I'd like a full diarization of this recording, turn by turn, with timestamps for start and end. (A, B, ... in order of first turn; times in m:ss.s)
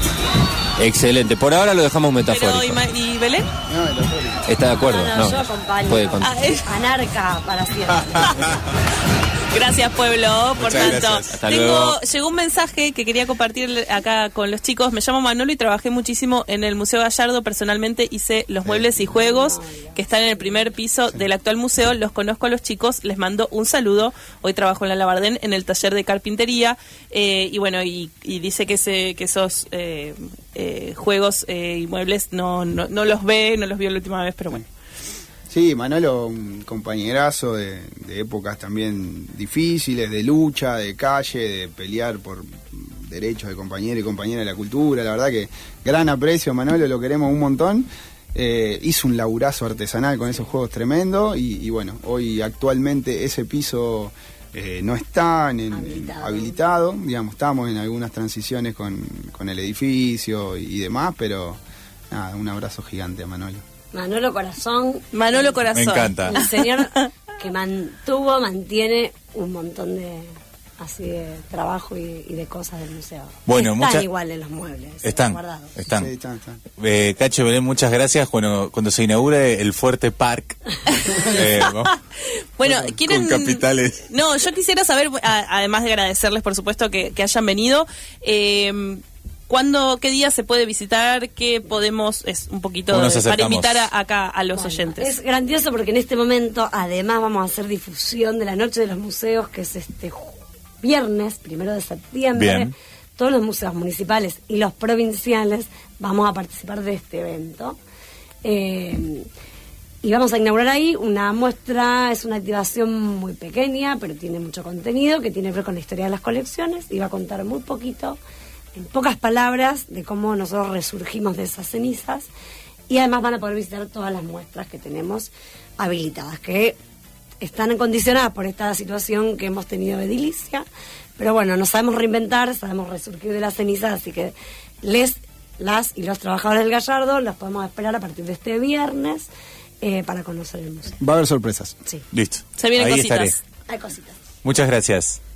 0:00.8-0:02.8 A
0:02.3-0:03.5 B
0:03.7-0:04.4 C
0:04.5-0:06.3 A
0:04.8-0:08.4 D
0:06.2-0:06.7 B
0:09.5-0:34.6 B
0:10.6-0:11.4 E
0:11.3-0:12.0 A
0:19.0-0:20.7 D
0:35.5-1:03.6 C
0:55.7-0:56.6 D
1:03.9-1:15.8 D
1:05.1-1:06.5 B
1:05.7-1:06.4 E
1:13.5-1:14.1 E
1:15.0-1:16.1 E
1:15.9-1:16.6 C
1:16.8-1:22.0 E
1:21.0-1:35.1 B
1:22.7-1:24.1 E
1:32.9-1:33.9 E
1:34.6-1:47.8 D
1:42.4-1:42.7 E
1:48.4-1:49.3 D
1:50.0-1:58.2 D
1:58.8-2:02.3 D
2:02.9-2:06.8 D
2:07.4-2:10.7 D
2:11.2-2:19.3 D
2:19.8-2:21.0 D
2:21.0-2:21.8 C
2:22.1-2:23.4 E
2:22.6-2:23.4 B
2:23.7-2:24.2 D
2:24.4-2:25.2 E